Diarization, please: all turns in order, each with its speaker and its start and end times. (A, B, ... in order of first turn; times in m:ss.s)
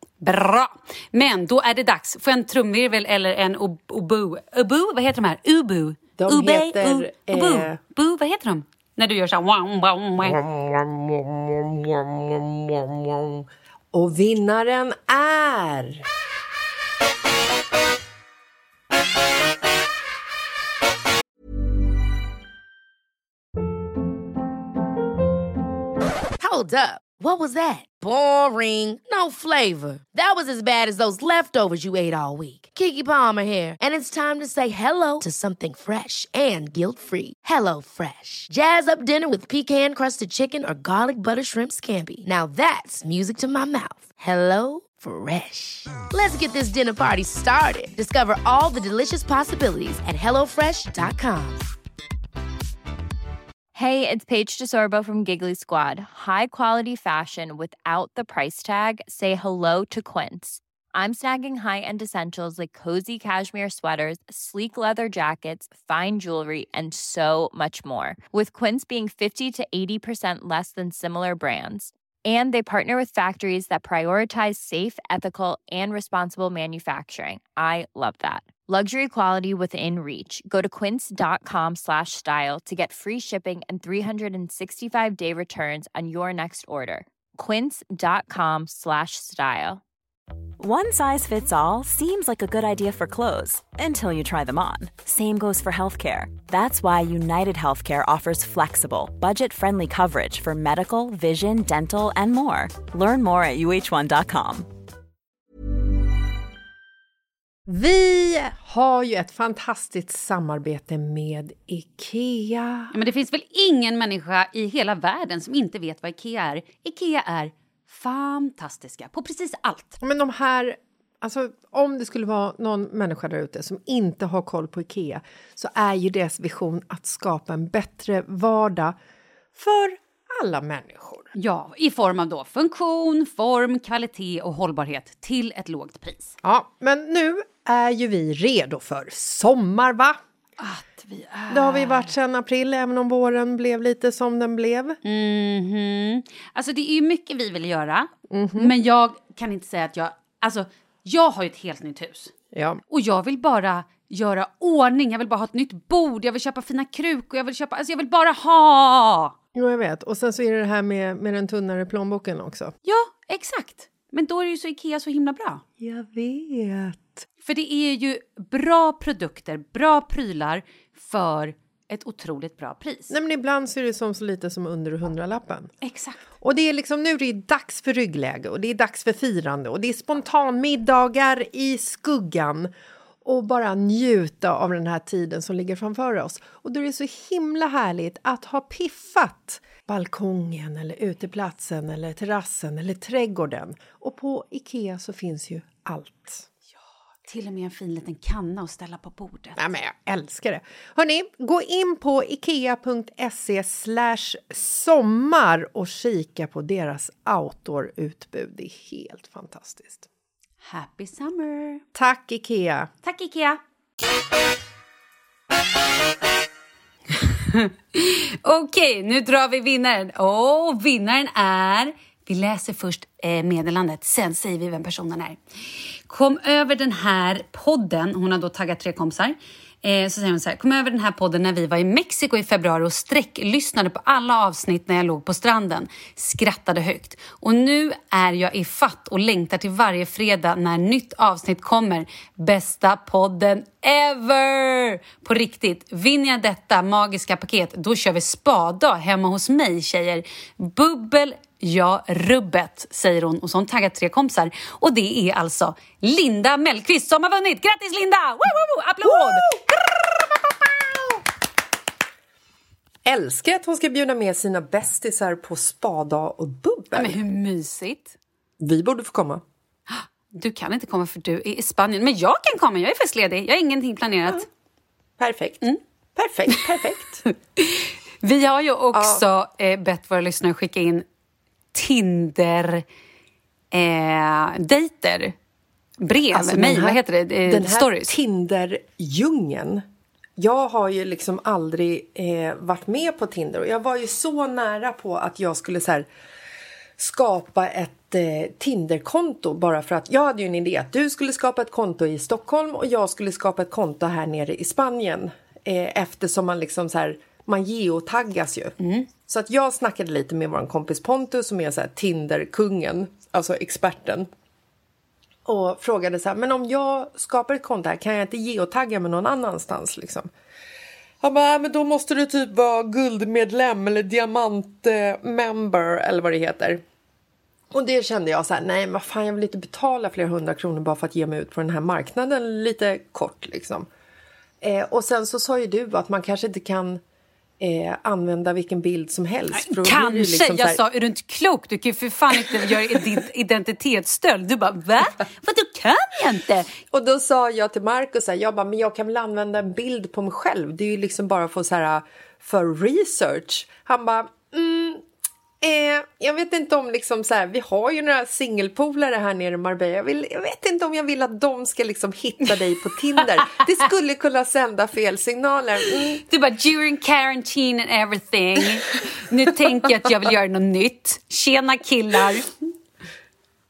0:00.2-0:10.4 A
0:06.2-0:07.8 B
0:10.2-0:16.0 B
0:26.4-0:51.7 C
0:53.8-1:29.8 D
1:30.6-1:44.7 E
1:47.7-1:52.9 B
1:52.9-2:00.0 A
2:00.0-2:09.0 B
2:09.6-2:11.3 B
2:11.4-2:16.4 A
2:16.4-2:20.2 B
2:20.6-2:22.1 A
2:21.5-2:25.0 B
2:25.0-2:32.3 A
2:28.3-2:28.7 B
2:32.5-2:32.8 B
2:32.9-2:39.4 A
2:39.6-2:42.7 B
2:42.8-2:45.6 A
2:45.8-2:47.2 B
2:47.4-2:53.1 A
2:53.1-2:55.7 B
2:55.8-2:56.2 A
2:56.4-3:02.7 B
3:03.2-3:16.5 B
3:17.3-3:19.6 A
3:19.6-3:30.1 B
3:30.6-3:31.8 A
3:31.9-3:32.9 B
3:33.0-3:33.6 A
3:37.1-3:45.4 A
3:46.1-4:19.5 A
4:19.0-4:21.2 B
4:23.0-4:27.2 B
4:26.9-4:28.2 A
4:28.6-4:29.4 B
4:29.9-4:34.5 A
4:35.2-4:37.2 B
4:37.6-4:41.0 A
4:38.9-4:39.2 B
4:41.7-4:42.8 A
4:43.7-4:45.3 A
4:46.0-4:48.1 A
4:46.3-4:49.8 B
4:50.4-4:56.1 B
4:57.0-5:08.8 B
5:08.8-5:09.1 A
5:09.3-5:14.3 B
5:15.5-5:20.3 B
5:21.2-5:26.8 B
5:27.7-5:33.9 B
5:34.6-5:37.0 B
5:37.6-5:40.8 B
5:39.5-5:46.8 A
5:42.4-5:43.0 B
5:46.9-5:55.0 B
5:55.6-6:06.2 B
6:06.2-6:12.5 A